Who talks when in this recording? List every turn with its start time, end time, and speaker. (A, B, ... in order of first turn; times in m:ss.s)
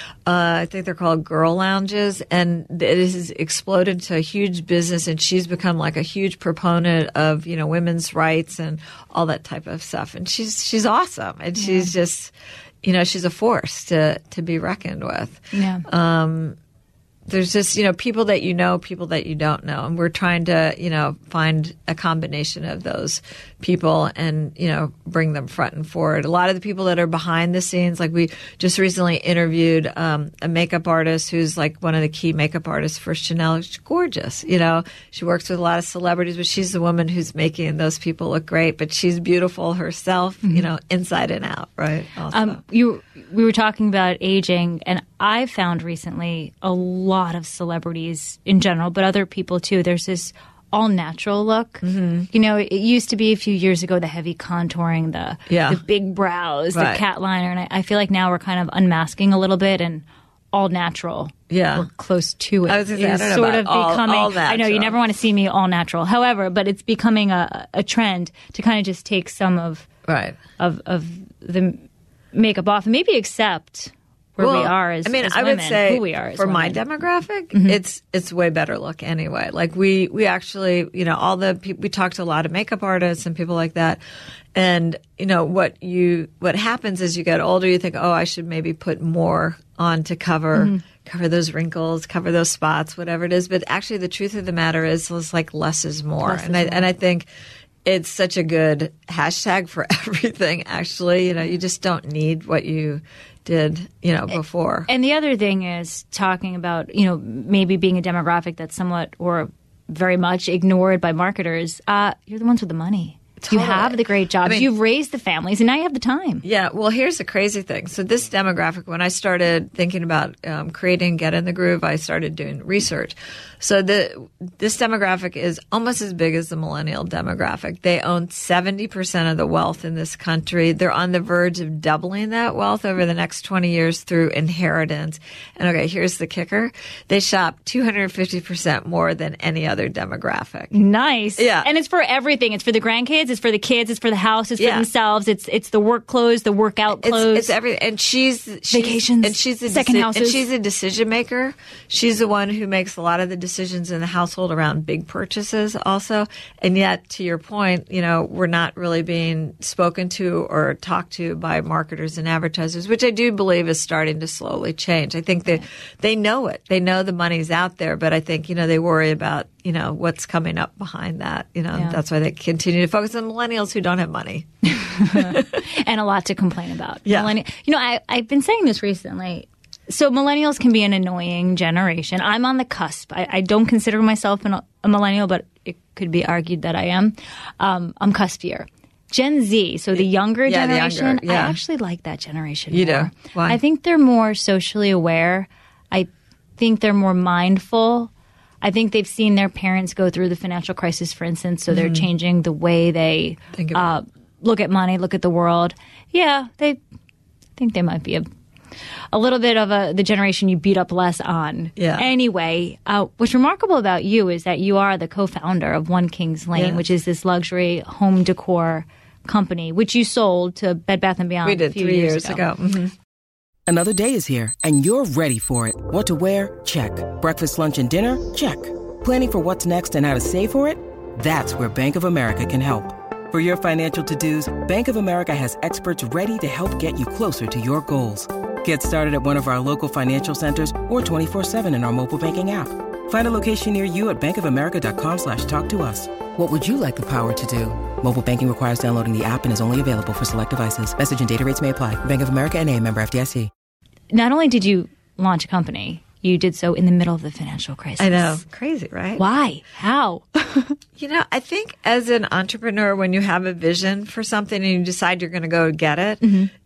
0:00.2-0:16.6 A
0:11.6-0:11.9 B
0:15.5-0:15.8 B
0:17.3-0:42.6 A
0:42.3-1:09.9 B
0:51.8-0:52.3 A
0:55.5-0:55.8 A
0:56.7-0:57.0 A
1:01.5-1:01.9 A
1:02.7-1:05.0 A
1:10.1-1:10.4 A
1:10.6-1:11.8 B
1:12.3-1:16.8 B
1:14.4-1:24.0 A
1:17.5-1:17.8 B
1:24.5-1:37.3 A
1:30.5-1:30.8 B
1:36.2-1:36.9 B
1:37.8-1:44.9 A
1:44.9-1:56.4 B
1:53.4-1:54.7 A
1:56.4-2:20.7 A
2:20.7-2:27.5 B
2:21.4-2:21.7 A
2:24.6-2:24.9 A
2:27.0-2:55.6 A
2:28.7-2:30.5 B
2:51.7-2:52.0 B
2:54.8-3:18.1 B
2:57.0-2:57.3 A
3:10.0-3:11.6 A
3:12.7-3:13.6 A
3:18.6-3:26.8 B
3:21.7-3:22.0 A
3:23.5-3:24.0 A
3:27.6-3:28.3 B
3:29.1-3:42.4 B
3:31.8-3:32.1 A
3:36.5-3:36.8 A
3:41.4-3:42.9 A
3:43.7-4:13.5 C
4:14.1-4:18.4 B
4:18.0-4:19.2 A
4:19.2-4:20.8 B
4:21.0-4:26.3 A
4:26.2-4:26.5 B